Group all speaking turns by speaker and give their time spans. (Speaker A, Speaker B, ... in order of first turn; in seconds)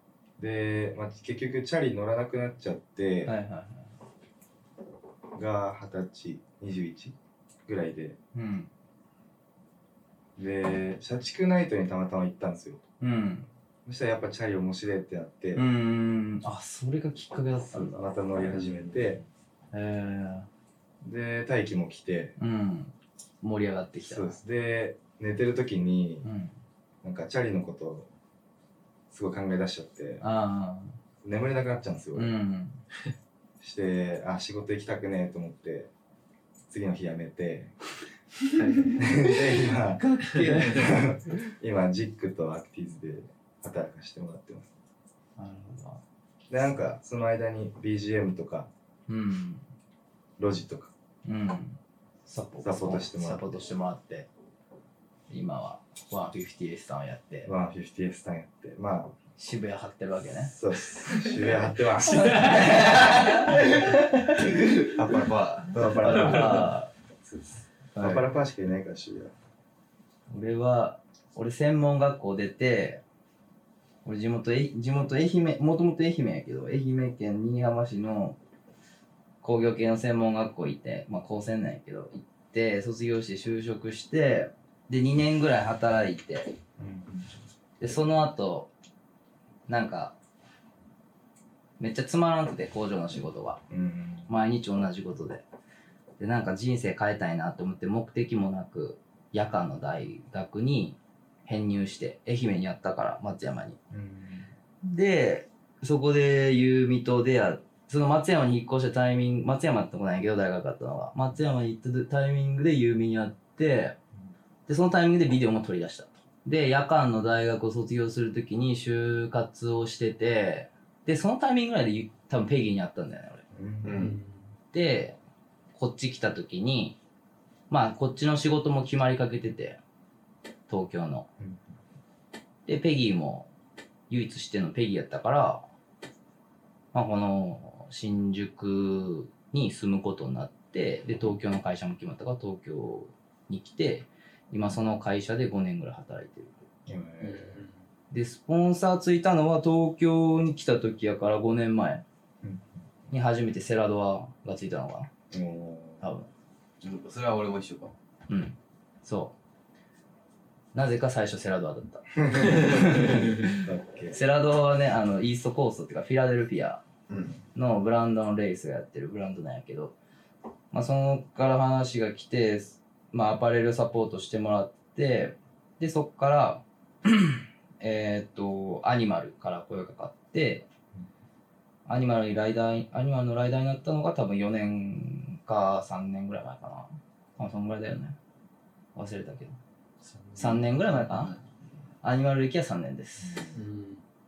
Speaker A: 0.4-3.3, 5.3-7.1, 7.7-8.2, 10.4-12.8, 13.8-15.6, 17.7-19.2, 21.0-22.4, 24.0-26.3, 27.0-28.1, 29.1-30.2, 31.2-32.3, 33.6-35.9, 36.7-37.7, 38.9-44.7, 46.5-48.7, 50.4-50.9, 52.6-53.4, 57.4-59.1, 60.5-63.6, 65.7-69.3, 86.8-87.3, 93.7-94.3, 103.9-104.5, 123.5-124.1, 131.4-131.6, 146.9-147.6, 152.4-152.7, 155.3-156.0, 162.2-164.2, 193.2-193.6
Speaker B: 3.2-3.9, 8.3-8.7, 13.0-13.5, 15.5-18.6, 19.7-20.5, 22.4-24.4, 26.2-26.5, 30.2-30.9, 32.1-32.8, 39.8-41.0, 45.4-46.0, 49.1-49.6, 51.2-54.3, 55.3-57.5, 59.4-60.5, 61.1-61.4, 62.0-64.4, 65.8-66.9, 67.9-68.2, 70.3-73.0, 74.0-78.4, 79.4-86.5, 87.8-88.7, 89.7-90.1, 91.8-93.6, 94.3-95.4, 96.2-103.8, 104.8-114.0, 114.7-123.4, 124.7-125.2, 125.7-127.0, 127.7-129.8, 130.7-131.3, 132.7-133.5, 134.1-135.6, 136.9-146.5, 148.1-152.0, 153.1-155.1, 156.0-156.3, 158.3-159.3, 160.7-166.8, 167.5-169.9, 170.7-180.7, 181.9-188.2, 188.9-189.6, 190.3-191.3, 192.0-193.4
Speaker C: 38.5-39.1, 40.4-40.9, 123.9-124.3, 147.2-147.7, 193.5-194.0
Speaker D: 64.7-65.8, 123.8-124.2, 156.8-157.9, 167.1-167.4, 190.0-191.5